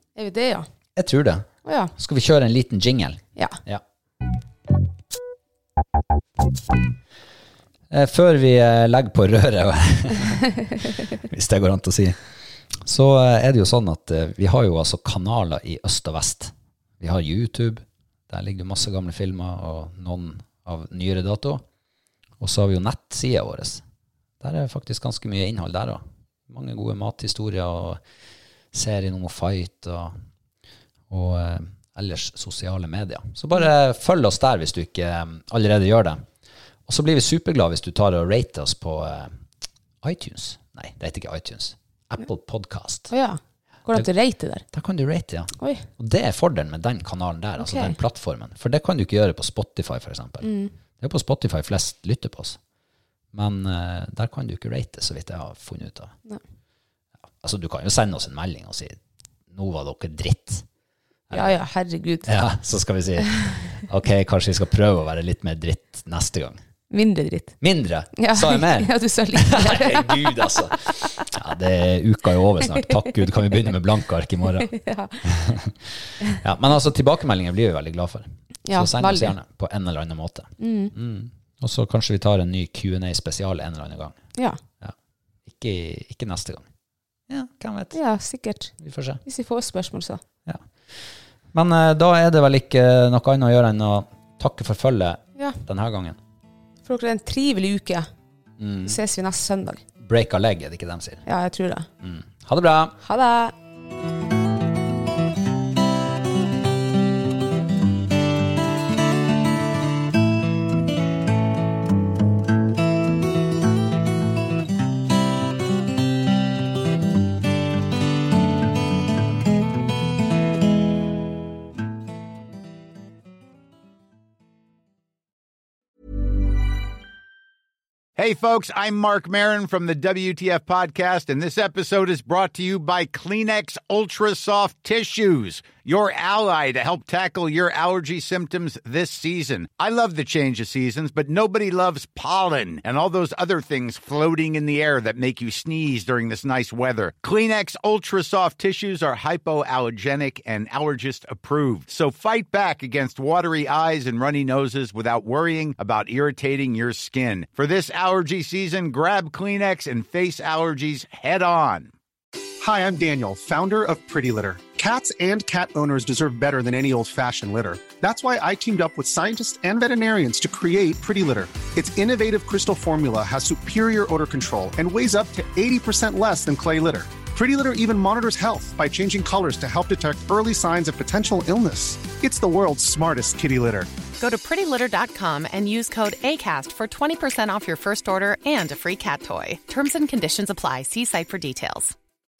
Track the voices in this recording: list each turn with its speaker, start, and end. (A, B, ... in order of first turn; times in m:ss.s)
0:00.2-0:00.7 A
0:01.0-0:03.8 B
0:01.6-0:01.9 A
0:07.9-0:12.2 B
0:12.8-0:21.6 B
0:22.4-0:23.8 B
0:24.4-0:28.0 B
0:28.7-0:30.2 B
0:31.1-0:36.2 B
0:36.9-0:39.3 B
0:40.0-0:43.1 B
0:43.1-0:44.6 A
0:44.7-0:52.6 B
0:45.6-0:45.8 A
0:47.6-0:48.0 A
0:50.4-0:50.7 A
0:53.3-0:56.1 B
0:57.4-0:59.0 B
0:59.5-1:00.6 B
1:01.3-1:01.6 B
1:01.3-1:02.3 A
1:02.2-1:06.6 B
1:06.9-1:07.5 A
1:07.6-1:14.7 B
1:08.2-1:11.2 A
1:14.6-1:15.2 A
1:15.2-1:15.7 B
1:16.3-1:24.2 B
1:18.6-1:19.3 A
1:20.6-1:20.9 A
1:25.4-1:26.7 B
1:27.3-1:28.0 B
1:27.9-1:28.7 A
1:28.8-1:29.2 B
1:29.2-1:30.2 A
1:30.4-1:36.2 B
1:36.8-1:38.1 A
1:38.6-1:39.0 B
1:38.8-1:39.8 A
1:40.0-1:41.2 B
1:41.2-1:41.9 A
1:42.0-1:43.0 B
1:43.0-1:43.5 A
2:08.2-2:41.9 C
2:42.6-3:03.9 D
3:04.2-3:11.9 E